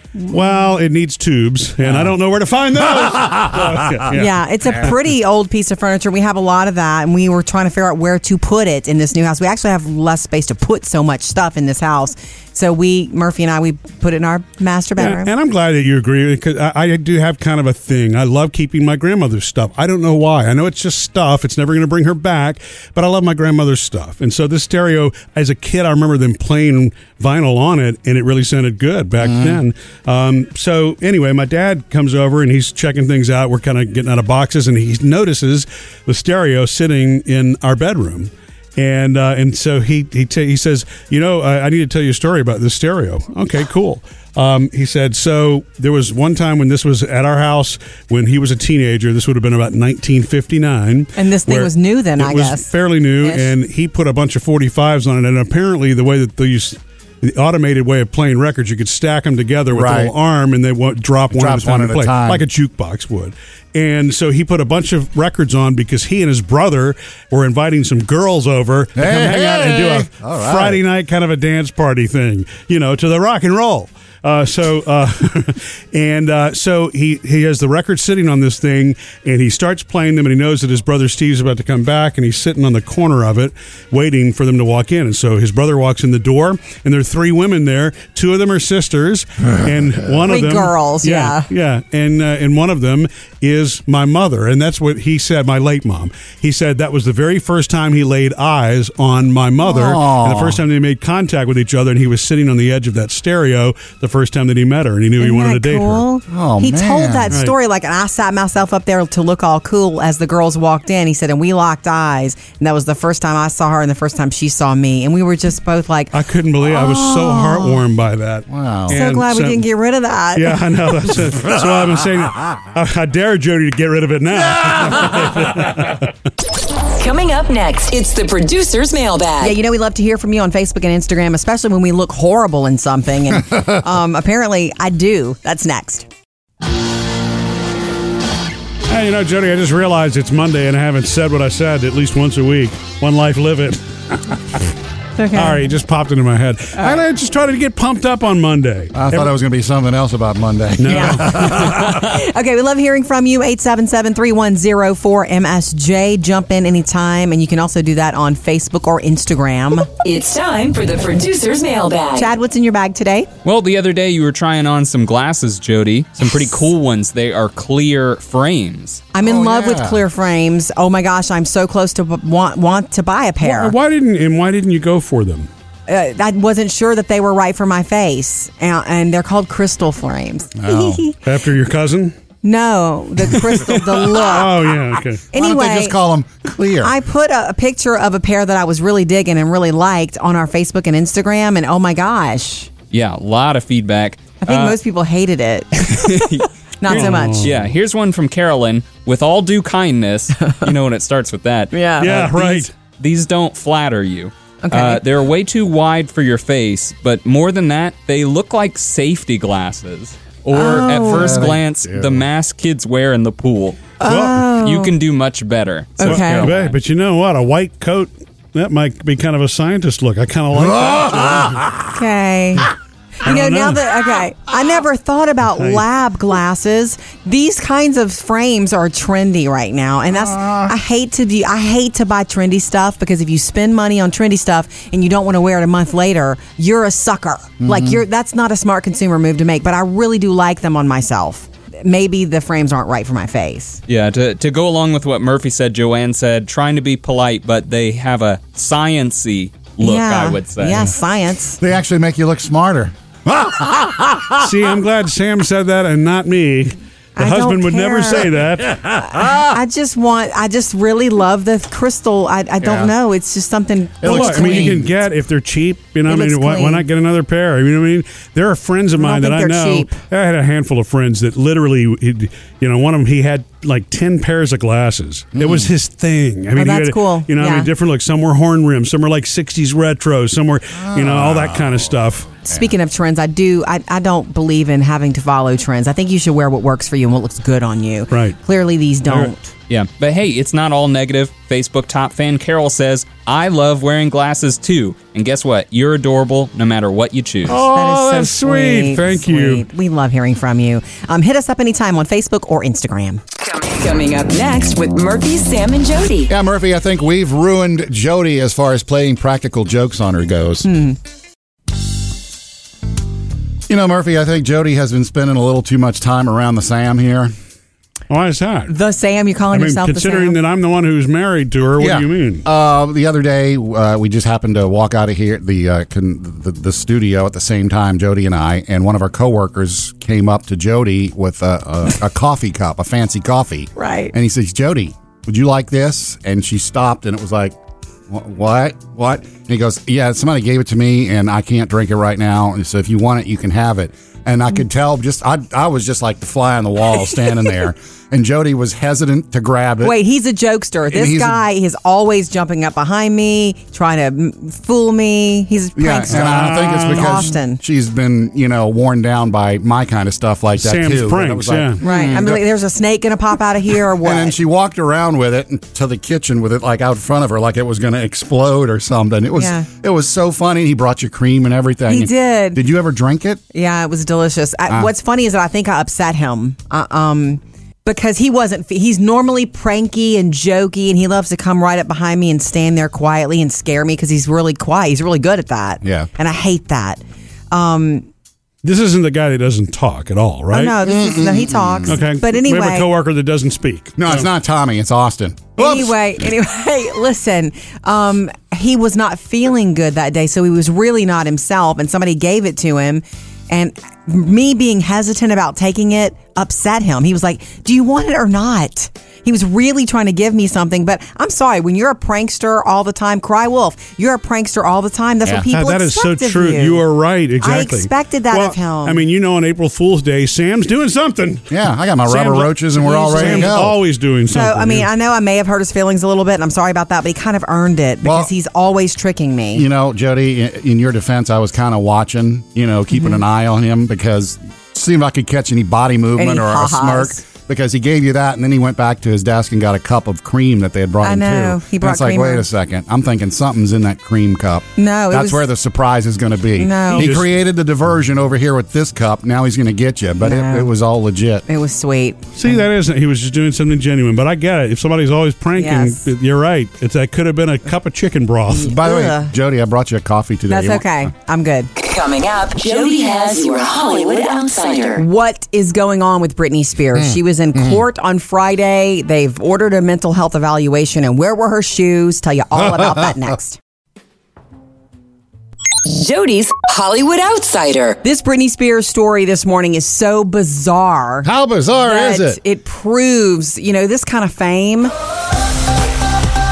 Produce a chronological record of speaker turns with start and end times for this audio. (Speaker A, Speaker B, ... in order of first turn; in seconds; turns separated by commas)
Speaker A: 0.1-0.6, Speaker B: 0.3-4.9, Speaker C: 1.8-2.1, Speaker C: 3.0-4.0, Speaker A: 4.1-15.3, Speaker B: 15.0-106.1, Speaker C: 29.2-29.6, Speaker A: 51.1-53.5, Speaker C: 59.7-60.1, Speaker C: 61.3-62.4, Speaker C: 69.0-70.8, Speaker A: 90.2-91.5, Speaker C: 99.6-100.6, Speaker A: 105.2-117.8, Speaker C: 106.3-107.3, Speaker B: 107.3-107.6, Speaker B: 116.1-119.6, Speaker C: 118.5-118.9, Speaker A: 118.9-120.7, Speaker B: 120.3-126.1, Speaker C: 124.6-125.1, Speaker D: 126.8-129.6, Speaker A: 129.4-136.1, Speaker B: 138.9-144.7, Speaker A: 145.2-145.7, Speaker B: 145.3-149.3, Speaker C: 148.9-151.9, Speaker B: 150.8-152.1, Speaker A: 150.9-159.9, Speaker D: 160.0-162.3, Speaker A: 162.1-163.3, Speaker E: 163.4-169.0, Speaker A: 169.1-173.7, Speaker C: 169.2-170.0, Speaker B: 173.4-175.5, Speaker A: 175.9-181.2, Speaker C: 180.6-181.0, Speaker B: 181.2-182.1, Speaker A: 182.4-184.6, Speaker B: 183.3-185.2, Speaker A: 185.3-186.0, Speaker C: 185.3-186.9, Speaker A: 186.8-192.7, Speaker E: 192.9-194.8, Speaker A: 194.4-197.5, Speaker E: 195.9-213.9, Speaker B: 196.9-197.6, Speaker A: 201.7-202.7, Speaker B: 202.0-202.7, Speaker A: 204.6-205.0, Speaker A: 210.5-211.5, Speaker C: 210.6-212.2, Speaker A: 214.0-214.9, Speaker B: 214.0-214.6, Speaker E: 214.6-216.8, Speaker A: 216.0-216.5, Speaker B: 216.0-221.7, Speaker C: 220.5-221.9, Speaker A: 221.9-222.7, Speaker A: 223.2-243.8, Speaker B: 223.2-224.0, Speaker B: 225.5-225.8, Speaker C: 230.1-230.7, Speaker C: 237.6-238.0, Speaker E: 243.9-250.9, Speaker A: 249.8-251.6, Speaker C: 251.6-254.4, Speaker B: 254.3-258.8, Speaker A: 257.2-258.3, Speaker C: 258.6-259.6, Speaker A: 259.0-264.8, Speaker C: 262.6-262.9, Speaker C: 264.0-264.8, Speaker B: 264.0-282.4, Speaker A: 266.1-266.8, Speaker A: 268.9-269.9, Speaker C: 275.3-275.7, Speaker A: 276.6-277.7, Speaker C: 280.7-281.9, Speaker A: 282.5-289.4, Speaker B: 288.1-288.4, Speaker B: 289.1-289.3, Speaker E: 289.7-297.6, Speaker B: 297.5-299.6, Speaker A: 297.5-303.2, Speaker D: 303.4-306.3, Speaker C: 306.3-310.7, Speaker A: 310.6-311.0, Speaker C: 313.7-317.3, Speaker B: 318.1-318.8, Speaker A: 318.7-320.4, Speaker B: 319.5-322.4, Speaker C: 321.8-337.6, Speaker A: 333.8-334.1, Speaker C: 338.1-350.0, Speaker A: 349.8-357.6, Speaker C: 350.9-351.4, Speaker C: 355.8-362.4, Speaker B: 356.1-357.3, Speaker B: 360.6-361.8, Speaker A: 361.8-364.4, Speaker C: 364.0-373.4, Speaker A: 369.4-369.7, Speaker A: 371.9-372.6, Speaker A: 373.5-388.1, Speaker C: 385.8-386.1, Speaker B: 388.6-390.8, Speaker A: 390.5-392.9, Speaker C: 390.8-391.9, Speaker B: 391.9-394.3, Speaker C: 394.0-395.9, Speaker A: 395.6-416.8, Speaker B: 415.5-421.5, Speaker A: 417.4-419.0, Speaker C: 421.5-423.8, Speaker B: 422.1-424.9, Speaker A: 422.8-423.6, Speaker A: 424.3-429.6, Speaker C: 428.0-428.3, Speaker C: 429.5-451.4, Speaker A: 432.9-433.2, Speaker A: 436.2-437.2, Speaker A: 441.0-442.4, Speaker A: 444.8-445.4, Speaker A: 446.6-447.1, Speaker B: 446.9-447.3, Speaker A: 450.2-450.7, Speaker A: 451.5-452.6, Speaker B: 452.3-458.7, Speaker A: 455.6-456.1, Speaker A: 458.5-459.3, Speaker C: 458.6-461.1, Speaker A: 460.5-461.7, Speaker D: 461.8-465.0, Speaker A: 464.9-473.6, Speaker C: 466.9-467.8, Speaker C: 472.6-473.3, Speaker D: 475.8-478.0, Speaker A: 478.0-481.3, Speaker C: 481.2-482.4, Speaker A: 481.8-484.9